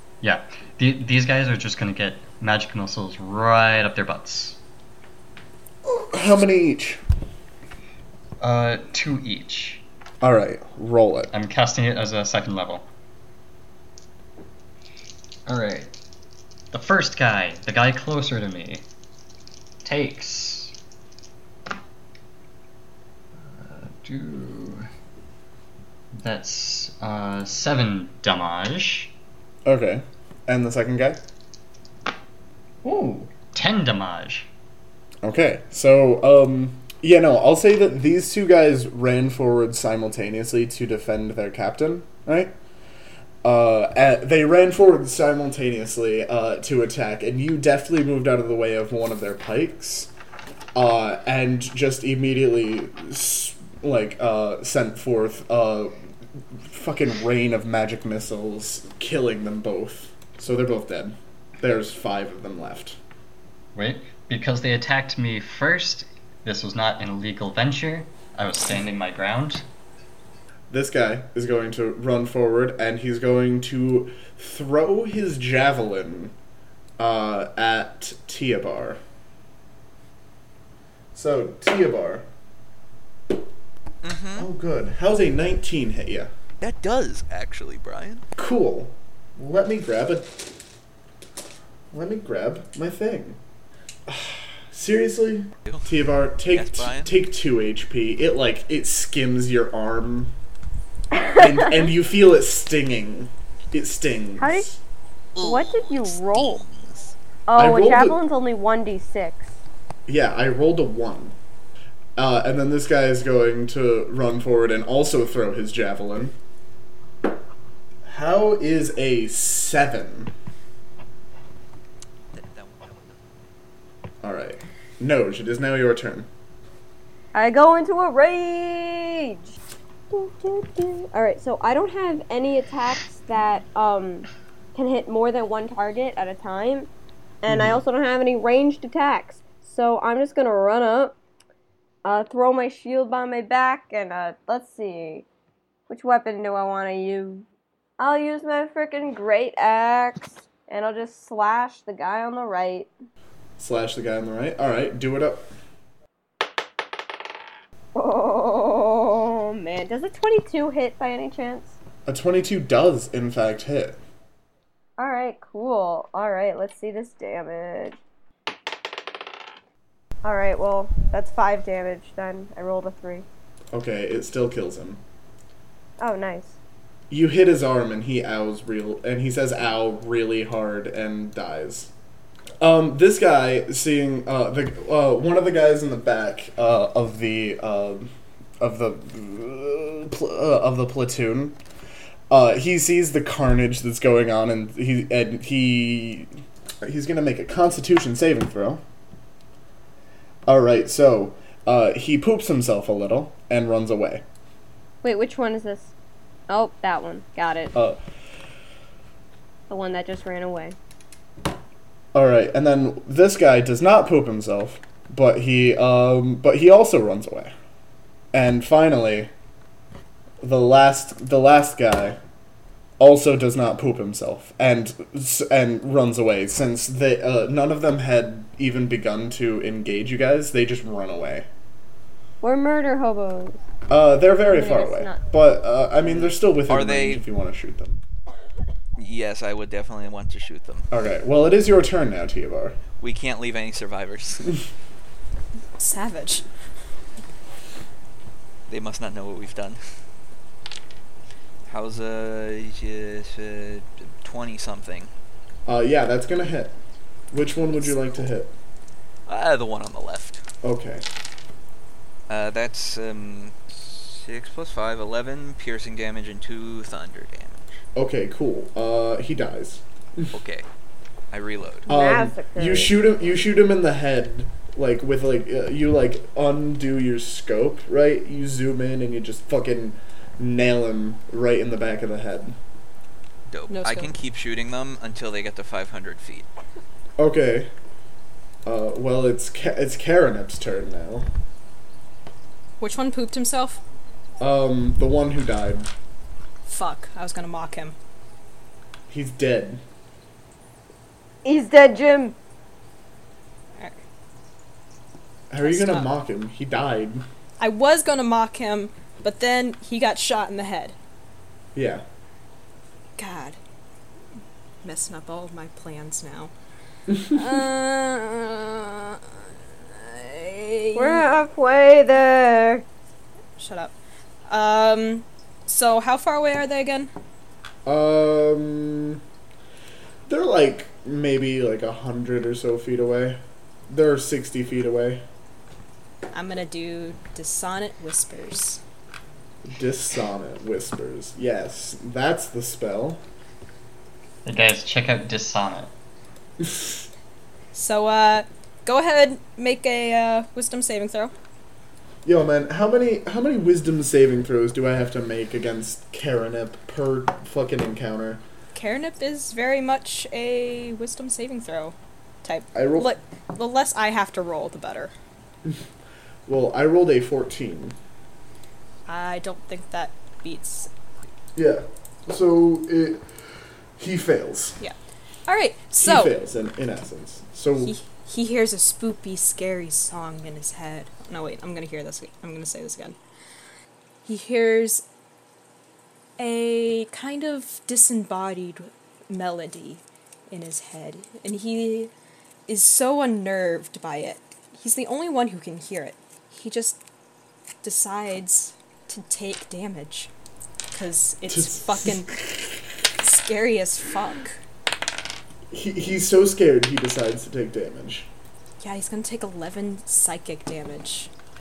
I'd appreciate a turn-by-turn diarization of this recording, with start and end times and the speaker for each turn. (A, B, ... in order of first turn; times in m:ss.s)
0:00.2-0:04.6 A
0:05.8-0:07.0 B
0:08.4-0:09.8 A
0:10.2-0:11.3 B
0:11.3-0:12.9 A
0:15.5-0:15.9 A
0:16.7-0:18.8 A
0:19.8-0:20.7 A
0:23.4-0:24.9 A
0:26.1-0:29.1 A
0:29.6-0:31.2 B
0:32.8-0:34.5 A
0:35.2-0:42.5 B
0:43.4-0:50.1 B
0:50.8-0:56.0 B
0:56.6-1:03.0 B
1:03.8-1:09.6 A
1:10.7-1:16.4 B
1:17.0-1:19.0 B
1:21.1-1:22.3 B
1:24.0-1:24.5 C
1:24.4-1:26.3 B
1:26.6-1:28.2 C
1:28.4-1:30.5 B
1:31.9-1:33.4 B
1:34.1-1:40.3 B
1:36.5-1:37.1 C
1:41.3-1:44.8 B
1:44.4-1:44.7 D
1:45.4-1:47.1 C
1:45.4-1:46.6 D
1:47.5-1:49.5 D
1:47.6-1:48.2 B
1:50.1-1:51.4 B
1:52.2-1:56.4 B
1:58.1-2:00.3 B
2:02.3-2:03.2 C
2:04.2-2:06.3 B
2:07.3-2:09.6 D
2:10.1-2:16.9 D
2:17.4-2:21.2 D
2:17.5-2:17.7 B
2:22.0-2:25.3 D
2:25.9-2:27.5 D
2:28.0-2:32.9 D
2:33.6-2:35.5 B
2:37.9-2:41.8 D
2:42.1-2:44.0 B
2:45.0-2:48.0 D
2:50.2-2:53.3 D
2:53.7-2:55.0 B
2:56.0-2:56.6 D
2:57.1-3:01.9 B
3:02.6-3:11.6 B
3:12.3-3:16.3 B
3:16.8-3:18.8 B
3:20.5-3:24.2 B
3:25.0-3:25.9 D
3:26.5-3:27.7 D
3:29.7-3:30.8 D
3:32.1-3:37.5 B
3:38.3-3:39.3 B
3:40.4-3:42.2 B
3:43.0-3:51.5 B
3:52.4-3:53.6 D
3:53.9-3:58.0 B
3:54.5-3:55.2 D
3:56.0-3:57.2 C
3:59.0-4:00.9 C
4:00.9-4:02.8 B
4:03.0-4:04.5 C
4:05.8-4:06.4 E
4:08.7-4:09.8 C
4:11.7-4:15.1 C
4:15.7-4:16.8 B
4:17.3-4:18.5 B
4:19.3-4:20.4 C
4:20.6-4:21.0 B
4:22.3-4:27.8 C
4:28.0-4:30.3 B
4:30.3-4:30.7 C
4:31.3-4:31.9 C
4:31.9-4:33.0 D
4:31.9-4:42.6 B
4:43.5-4:46.5 C
4:43.7-4:44.1 E
4:47.2-4:47.7 B
4:48.7-4:51.3 B
4:52.8-4:53.8 E
4:54.4-4:55.9 B
4:56.7-4:58.0 E
4:59.1-4:59.8 B
5:01.4-5:02.4 D
5:05.5-5:07.2 B
5:05.6-5:06.1 E
5:07.6-5:11.0 E
5:11.8-5:12.0 B
5:13.2-5:13.6 E
5:14.8-5:16.5 E
5:17.2-5:19.3 E
5:19.9-5:21.2 E
5:21.0-5:22.8 D
5:23.6-5:23.9 E
5:24.5-5:27.1 E
5:27.9-5:29.2 B
5:30.3-5:35.2 B
5:36.3-5:38.8 E
5:39.6-5:43.2 B
5:44.4-5:45.9 A
5:47.7-5:51.3 E
5:52.2-5:58.4 B
5:58.8-6:05.1 E
6:02.7-6:03.1 B
6:06.5-6:08.0 B
6:09.1-6:10.9 E
6:11.6-6:13.3 B
6:14.0-6:14.8 B
6:15.5-6:16.4 E
6:16.0-6:18.0 B
6:17.8-6:23.2 E
6:24.2-6:25.0 E
6:26.4-6:32.1 E
6:32.7-6:37.0 E
6:37.8-6:40.3 E
6:40.9-6:42.4 E
6:41.5-6:42.5 B
6:43.2-6:44.6 E
6:45.7-6:48.3 B
6:48.8-6:51.3 E